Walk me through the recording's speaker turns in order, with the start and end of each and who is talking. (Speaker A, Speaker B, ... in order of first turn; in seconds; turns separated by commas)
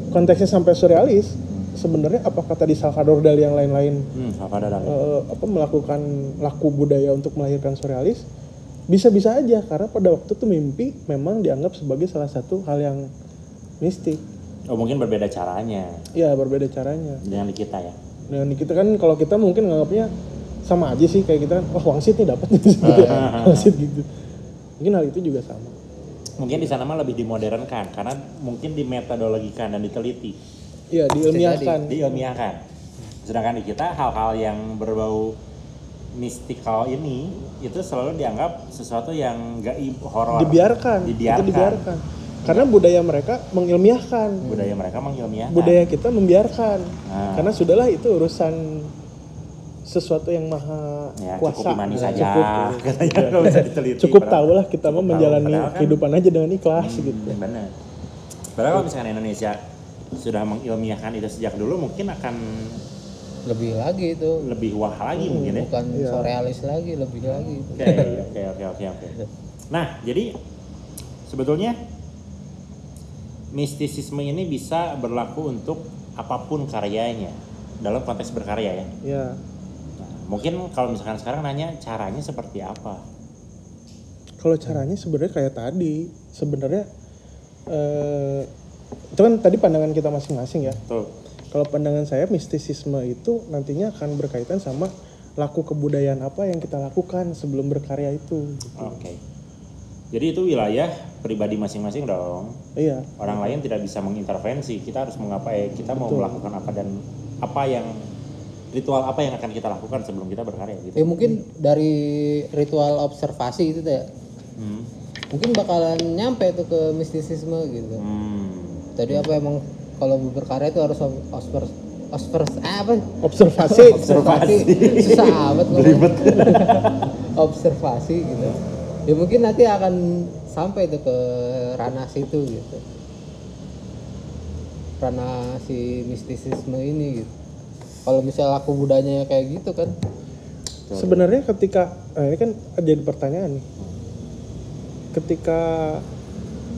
Speaker A: 0.1-4.0, Speaker B: 4.1-5.0, Speaker A: 4.8-8.2, Speaker A: 8.9-13.1, Speaker A: 13.8-14.2, Speaker B: 14.7-16.1, Speaker A: 16.1-17.2, Speaker B: 17.2-18.0, Speaker A: 18.3-20.1, Speaker A: 20.6-24.1, Speaker B: 22.8-23.8, Speaker C: 22.9-23.2, Speaker A: 24.8-25.7, Speaker B: 26.4-30.4, Speaker A: 30.9-32.2, Speaker C: 31.2-31.8, Speaker B: 31.8-32.6, Speaker B: 33.2-35.4, Speaker B: 36.1-41.9, Speaker A: 40.3-44.5, Speaker B: 42.4-42.7, Speaker C: 44.4-44.8, Speaker B: 44.4-45.8, Speaker A: 45.5-48.9, Speaker B: 47.0-47.5, Speaker A: 49.9-57.4, Speaker B: 51.2-56.0, Speaker C: 51.9-52.2, Speaker B: 56.8-57.7, Speaker B: 58.5-59.6, Speaker B: 60.2-62.8, Speaker C: 63.5-64.4, Speaker B: 64.4-65.7, Speaker A: 65.2-66.3, Speaker C: 65.2-68.3, Speaker B: 67.3-69.2, Speaker A: 67.9-68.2, Speaker B: 69.7-70.3, Speaker B: 71.3-71.8, Speaker B: 73.5-78.9, Speaker A: 79.0-79.4, Speaker B: 80.0-83.0, Speaker A: 84.4-86.9, Speaker A: 87.7-88.5, Speaker A: 89.1-90.8, Speaker B: 90.8-91.1, Speaker A: 91.5-99.0, Speaker B: 98.8-99.2, Speaker B: 100.1-102.6, Speaker A: 102.8-103.6, Speaker B: 103.2-108.1, Speaker A: 106.0-106.4, Speaker B: 108.7-111.3, Speaker C: 111.0-114.1, Speaker B: 114.6-114.9, Speaker C: 115.3-118.0, Speaker B: 118.0-119.3, Speaker C: 119.0-128.6, Speaker A: 123.2-124.3, Speaker B: 123.8-127.0, Speaker C: 129.1-132.8, Speaker C: 135.0-137.3, Speaker C: 138.0-139.9, Speaker B: 140.9-141.2, Speaker A: 140.9-143.7, Speaker A: 145.1-146.1